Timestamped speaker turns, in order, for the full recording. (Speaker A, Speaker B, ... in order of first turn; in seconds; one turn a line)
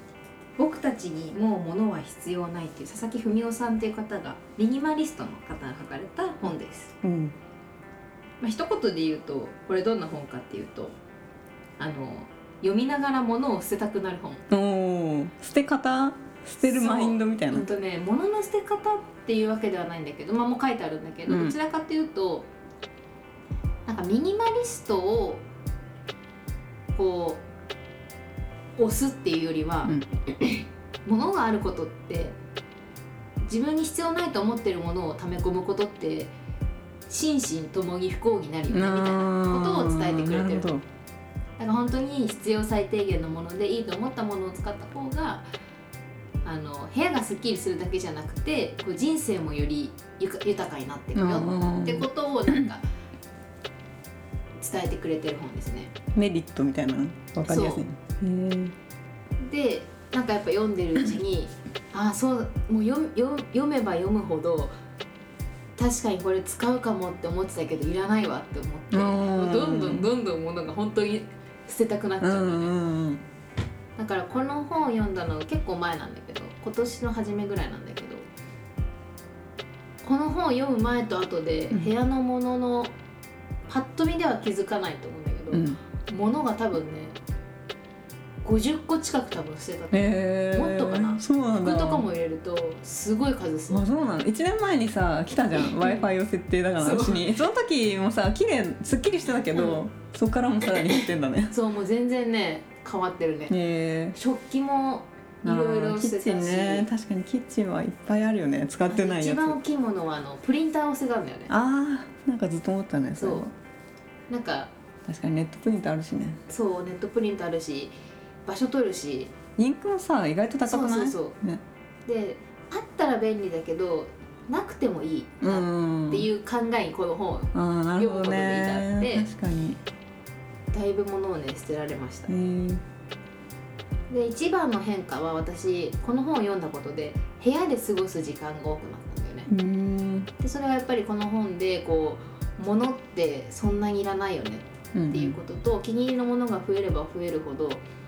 Speaker A: 0.6-6.9
Speaker B: 7.0-7.3
Speaker A: 8.4-10.9
Speaker A: 11.8-14.4
Speaker B: 14.5-17.7
Speaker A: 16.6-22.5
Speaker B: 21.3-21.5
Speaker A: 23.9-25.4
Speaker A: 26.9-27.4
Speaker A: 28.8-32.4
Speaker A: 33.4-36.3
Speaker A: 37.1-40.7
Speaker B: 38.7-40.8
Speaker A: 41.6-45.5
Speaker A: 46.4-52.8
Speaker B: 51.1-52.6
Speaker A: 54.6-55.9
Speaker B: 56.1-58.7
Speaker A: 57.5-57.8
Speaker A: 59.4-64.7
Speaker A: 65.8-72.7
Speaker B: 68.9-70.1
Speaker B: 72.2-73.2
Speaker A: 74.0-78.3
Speaker A: 80.0-82.9
Speaker A: 83.7-87.2
Speaker B: 85.5-85.8
Speaker A: 88.4-93.8
Speaker B: 89.9-92.1
Speaker B: 93.7-101.5
Speaker A: 95.6-96.0
Speaker A: 96.8-97.3
Speaker A: 99.5-99.8
Speaker A: 100.9-103.5
Speaker B: 103.5-104.2
Speaker A: 104.1-106.9
Speaker B: 105.4-109.6
Speaker A: 108.9-111.5
Speaker B: 111.5-113.5
Speaker A: 113.2-113.4
Speaker A: 114.3-114.7
Speaker B: 115.0-116.4
Speaker A: 116.5-117.9
Speaker A: 118.5-119.3
Speaker B: 119.6-121.6
Speaker A: 120.6-121.3
Speaker A: 122.0-129.3
Speaker B: 125.4-126.3
Speaker B: 127.5-129.8
Speaker A: 130.7-132.3
Speaker B: 132.3-132.8
Speaker A: 134.1-139.5
Speaker B: 139.5-140.3
Speaker A: 140.4-147.8
Speaker B: 144.9-145.4